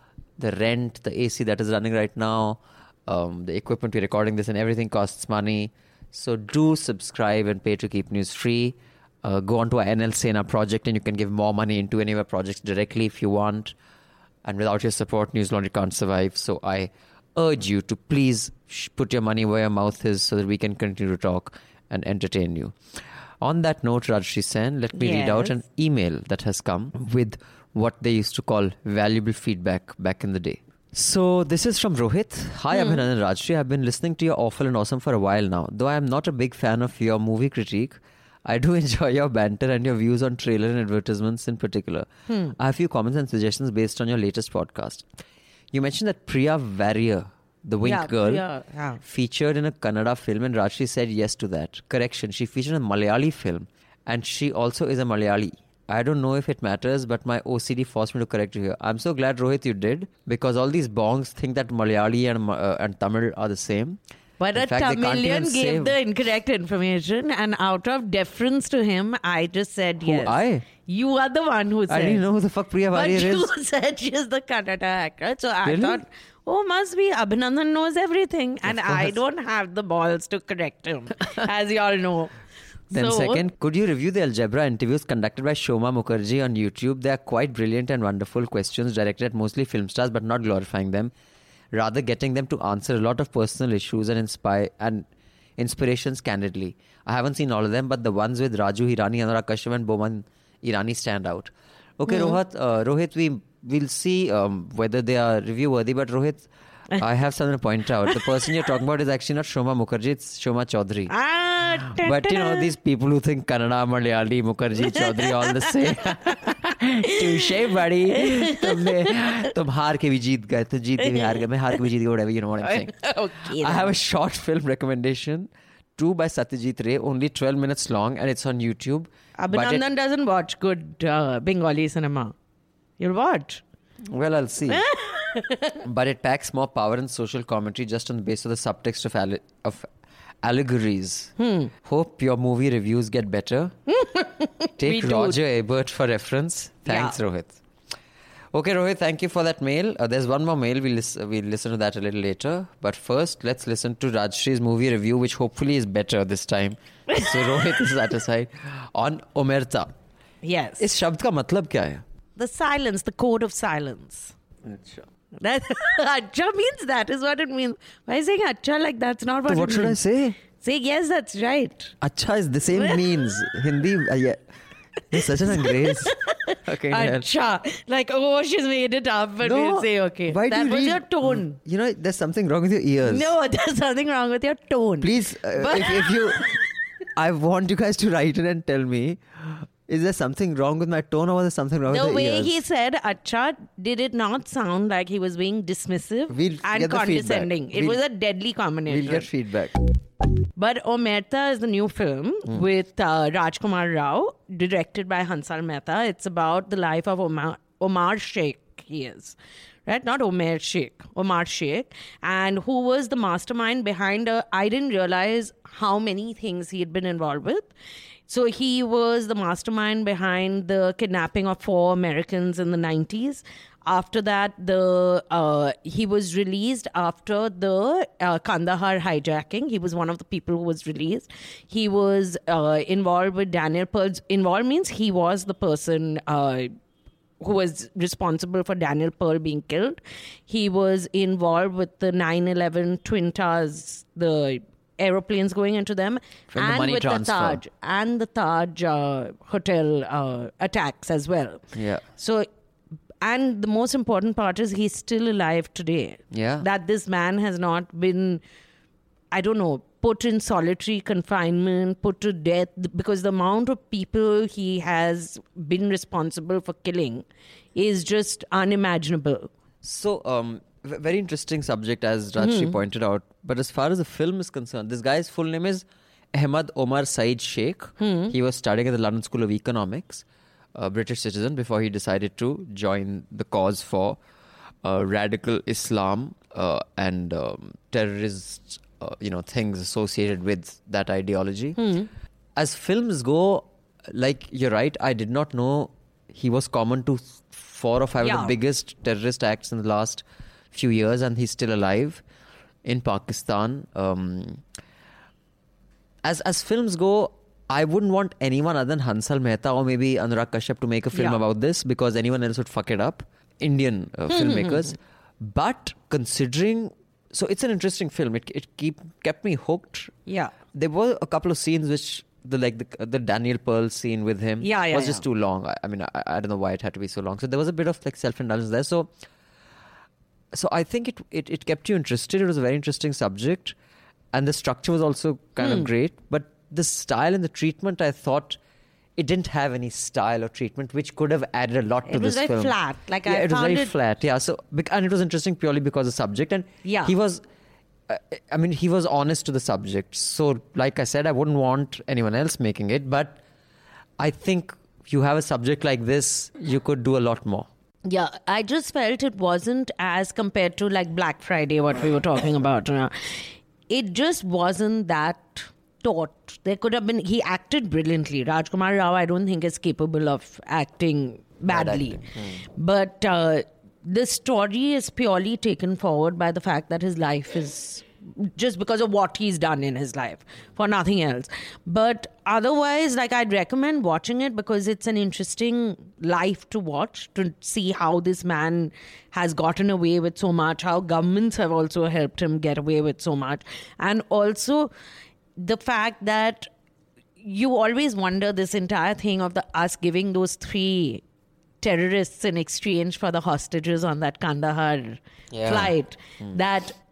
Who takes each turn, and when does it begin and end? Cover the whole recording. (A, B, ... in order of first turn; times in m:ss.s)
0:00.4-0:13.8 A
0:14.4-0:22.8 A
0:23.4-0:45.1 A
0:25.0-0:25.6 B
0:32.8-0:33.0 B
0:42.3-0:42.6 B
0:45.7-0:48.4 A
0:47.8-0:49.0 B
0:49.0-1:04.0 A
1:04.4-1:12.2 B
1:04.6-1:06.0 A
1:10.0-1:10.7 A
1:11.9-1:13.5 A
1:12.9-1:22.3 B
1:15.6-1:16.0 A
1:18.6-1:19.2 A
1:22.9-1:23.4 B
1:22.9-1:31.1 A
1:31.7-1:35.1 A
1:35.6-1:51.1 A
1:42.1-1:42.4 B
1:51.1-1:52.7 B
1:52.0-2:09.8 A
1:54.9-1:57.5 B
1:58.1-1:59.4 B
2:01.0-2:01.5 B
2:02.6-2:03.9 B
2:09.4-2:12.4 B
2:13.0-2:13.6 B
2:14.1-2:14.8 A
2:14.7-2:15.8 B
2:15.8-2:19.9 A
2:20.4-2:21.3 A
2:21.4-2:21.7 B
2:21.8-2:23.8 A
2:23.9-2:25.4 B
2:24.8-2:27.6 A
2:26.9-2:27.2 B
2:28.5-2:39.9 A
2:37.1-2:37.5 B
2:40.4-2:40.8 B
2:40.8-2:42.0 A
2:42.4-2:44.3 B
2:44.6-2:45.1 A
2:45.4-2:50.0 B
2:49.5-2:50.4 A
2:50.6-2:52.0 B
2:52.0-2:54.4 A
2:52.7-2:53.0 B
2:55.1-2:57.3 A
2:55.2-3:01.6 B
2:59.4-3:03.3 A
3:03.1-3:06.6 B
3:05.0-3:06.5 A
3:07.2-3:12.6 A
3:11.9-3:19.3 B
3:16.3-3:18.0 A
3:18.9-3:19.7 A
3:20.6-3:37.7 B
3:38.3-3:56.7 B
3:57.4-4:11.6 B
4:06.5-4:07.6 A
4:11.7-4:12.0 A
4:12.2-4:12.5 B
4:13.2-4:18.4 B
4:16.3-4:16.7 A
4:19.3-4:27.2 B
4:27.8-4:29.5 B
4:29.8-4:40.2 A
4:32.4-4:32.8 B
4:38.0-4:38.3 B
4:40.8-4:44.2 A
4:44.8-4:51.8 A
4:51.8-4:52.1 B
4:52.6-5:02.2 A
4:58.2-4:58.6 B
5:02.8-5:04.6 A
5:06.2-5:20.1 A
5:11.1-5:11.4 B
5:14.3-5:14.9 B
5:20.3-5:20.5 B
5:20.7-5:29.1 A
5:24.6-5:25.2 B
5:30.5-5:33.8 A
5:34.3-5:38.6 A
5:35.6-5:35.9 B
5:39.2-5:47.4 A
5:42.1-5:43.9 B
5:46.8-5:47.1 B
5:48.1-5:53.4 A
5:54.2-5:57.7 A
5:58.0-6:34.9 B
6:11.7-6:12.6 A
6:35.6-6:36.7 B
6:37.4-6:41.2 B
6:41.8-6:47.0 B
6:45.5-6:45.9 A